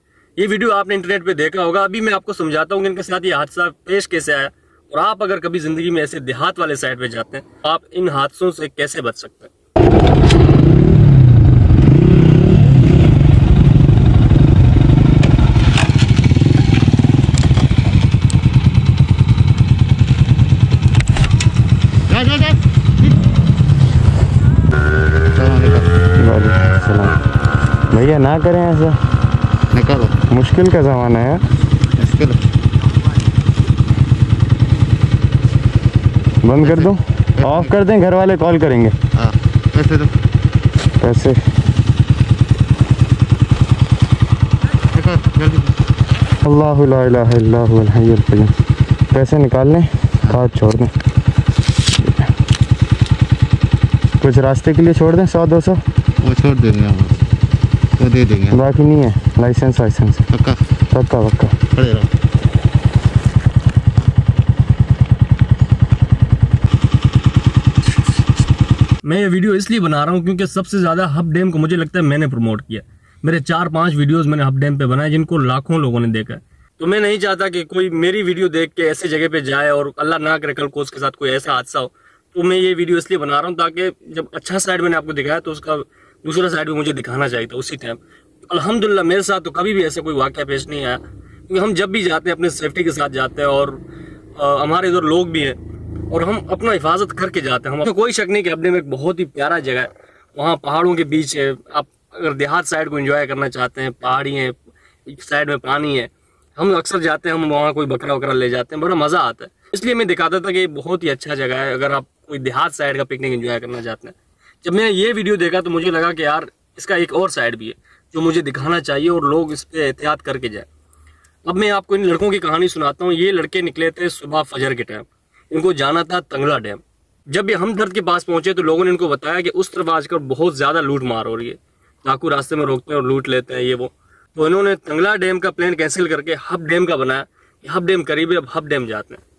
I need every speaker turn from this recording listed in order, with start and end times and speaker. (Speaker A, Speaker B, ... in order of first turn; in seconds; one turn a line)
Speaker A: 0.4-9.5
Speaker B: 25.4-25.9
Speaker C: 26.1-27.2
Speaker C: 27.9-29.0
Speaker B: 29.7-30.2
Speaker C: 30.3-31.4
Speaker B: 32.0-32.4
Speaker C: 36.4-39.0
Speaker B: 36.6-37.7
Speaker B: 39.2-40.1
Speaker C: 41.0-41.4
Speaker B: 44.9-45.7
Speaker C: 46.4-48.5
Speaker C: 49.1-50.9
Speaker C: 54.2-55.8
Speaker B: 56.2-57.2
Speaker B: 58.0-58.6
Speaker C: 58.5-60.3
Speaker C: 60.9-61.6
Speaker B: 61.8-62.1
Speaker A: 69.0-93.8
Speaker A: 94.4-95.6
Speaker A: 96.1-120.7
Speaker A: 121.5-139.2